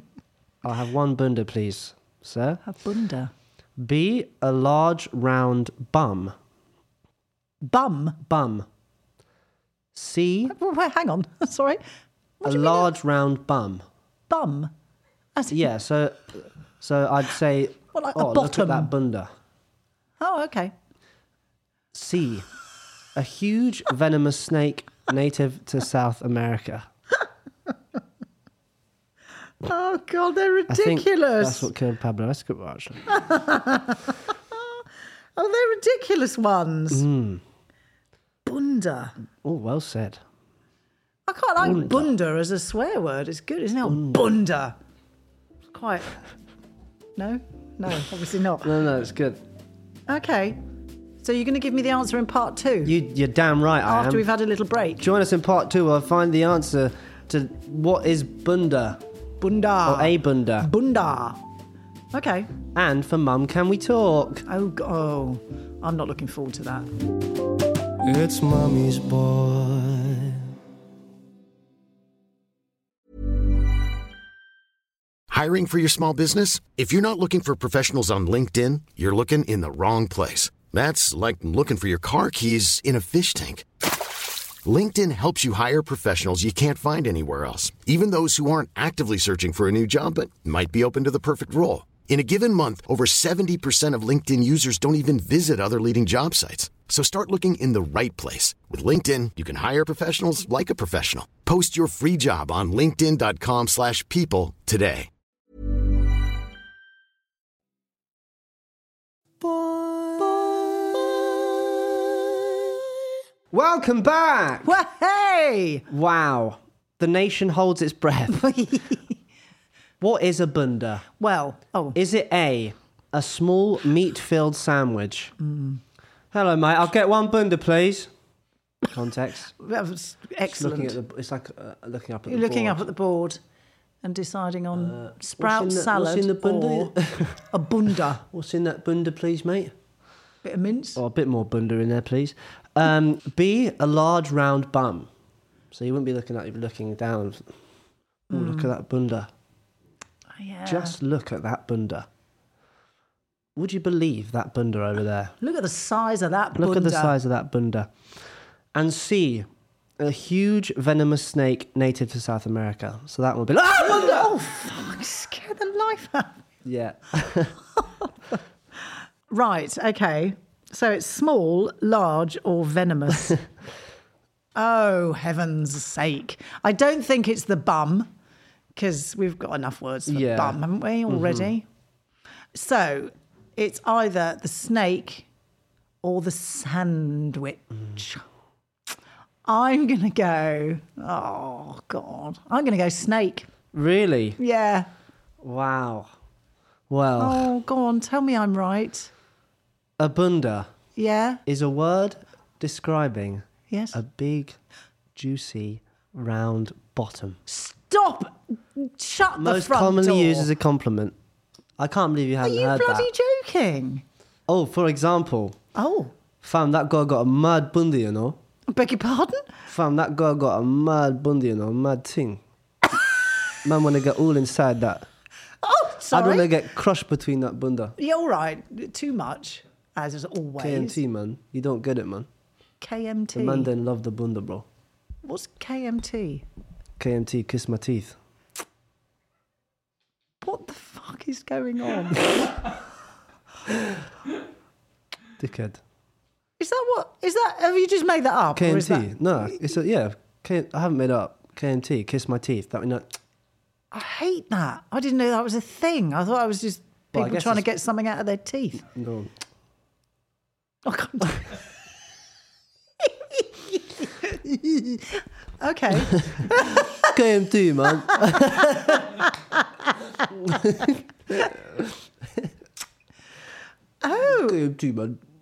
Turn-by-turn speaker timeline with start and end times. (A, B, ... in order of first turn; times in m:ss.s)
0:00.6-0:02.6 A
0:02.6-0:03.3 B
0:03.8-0:06.4 A
0:07.6-0:08.2 B
0:08.2-0:08.7 A
0:09.9-0:10.5 A
0:10.5-0:11.8 B
0:12.4-0:12.9 B
0:12.4-0:13.8 A
0:14.3-0:14.7 B
0:15.4-0:15.7 B
0:15.5-0:19.3 A
0:17.9-0:18.9 B
0:20.2-0:20.7 B
0:21.9-0:22.5 A
0:23.1-0:26.9 A
0:29.6-0:31.7 B
0:30.7-0:33.1 A
0:33.1-0:34.8 B
0:35.4-0:37.0 B
0:36.9-0:37.4 A
0:38.5-0:39.2 B
0:39.4-0:40.2 A
0:41.3-0:44.8 B
0:41.6-0:42.1 A
0:43.8-0:44.2 A
0:45.7-0:46.2 B
0:47.2-0:48.8 B
0:48.6-0:49.4 A
0:50.1-0:50.6 B
0:51.2-0:53.0 B
0:52.8-0:54.2 A
0:53.9-0:55.1 B
0:55.0-0:59.0 A
0:59.4-1:01.4 B
0:59.8-1:00.7 A
1:02.1-1:02.5 B
1:02.7-1:04.4 A
1:04.5-1:06.9 B
1:08.0-1:10.5 A
1:15.3-1:23.7 C
1:24.6-1:45.1 C
1:49.4-1:52.6 A
1:53.5-1:54.8 A
1:54.6-1:55.8 B
1:55.9-1:58.5 A
1:58.3-1:59.1 B
2:00.0-2:01.1 A
2:01.2-2:02.0 B
2:02.0-2:05.3 A
2:05.4-2:05.8 B
2:06.3-2:08.1 A
2:08.8-2:09.5 A
2:09.6-2:11.0 B
2:10.5-2:12.9 A
2:12.3-2:13.4 B
2:14.0-2:17.0 B
2:14.8-2:17.4 A
2:17.5-2:18.2 B
2:18.3-2:19.7 A
2:20.4-2:21.0 B
2:21.0-2:25.1 A
2:25.7-2:27.5 A
2:28.3-2:28.7 B
2:28.3-2:29.3 A
2:30.4-2:31.0 B
2:30.7-2:32.1 A
2:33.6-2:35.4 A
2:35.4-2:37.2 B
2:36.6-2:37.9 A
2:38.7-2:39.5 A
2:40.0-2:44.3 A
2:43.7-2:46.4 B
2:46.6-2:47.6 A
2:49.3-2:53.4 B
2:54.6-2:58.1 B
2:58.8-3:01.7 B
3:00.1-3:01.5 A
3:02.6-3:05.3 B
3:06.0-3:08.2 B
3:09.5-3:13.5 B
3:13.7-3:14.4 A
3:14.4-3:14.9 B
3:15.4-3:16.1 A
3:16.9-3:17.5 A
3:17.2-3:19.1 B
3:20.0-3:20.7 A
3:21.0-3:21.4 B
3:21.5-3:24.6 A
3:23.7-3:24.0 B
3:25.2-3:27.4 A
3:27.5-3:30.5 B
3:29.4-3:31.2 A
3:31.8-3:33.1 A
3:32.4-3:34.0 B
3:34.5-3:35.6 A
3:35.8-3:36.1 B
3:36.4-3:38.4 A
3:38.7-3:39.5 B
3:39.7-3:42.4 A
3:43.6-3:45.1 A
3:45.6-3:46.5 B
3:46.1-3:48.0 A
3:48.0-3:51.0 B
3:50.6-3:52.3 A
3:52.8-3:53.7 B
3:53.4-3:54.7 A
3:55.2-3:56.4 B
3:57.0-3:58.2 A
4:00.4-4:02.5 B
4:05.4-4:05.8 A
4:06.6-4:09.5 B
4:08.6-4:13.2 A
4:13.9-4:18.9 B
4:17.1-4:17.7 A
4:18.9-4:19.3 A
4:20.8-4:21.6 B
4:23.0-4:24.4 B
4:25.6-4:27.1 B
4:26.7-4:29.2 A
4:28.1-4:29.9 B
4:30.3-4:32.5 A
4:34.0-4:34.6 B
4:34.2-4:35.2 A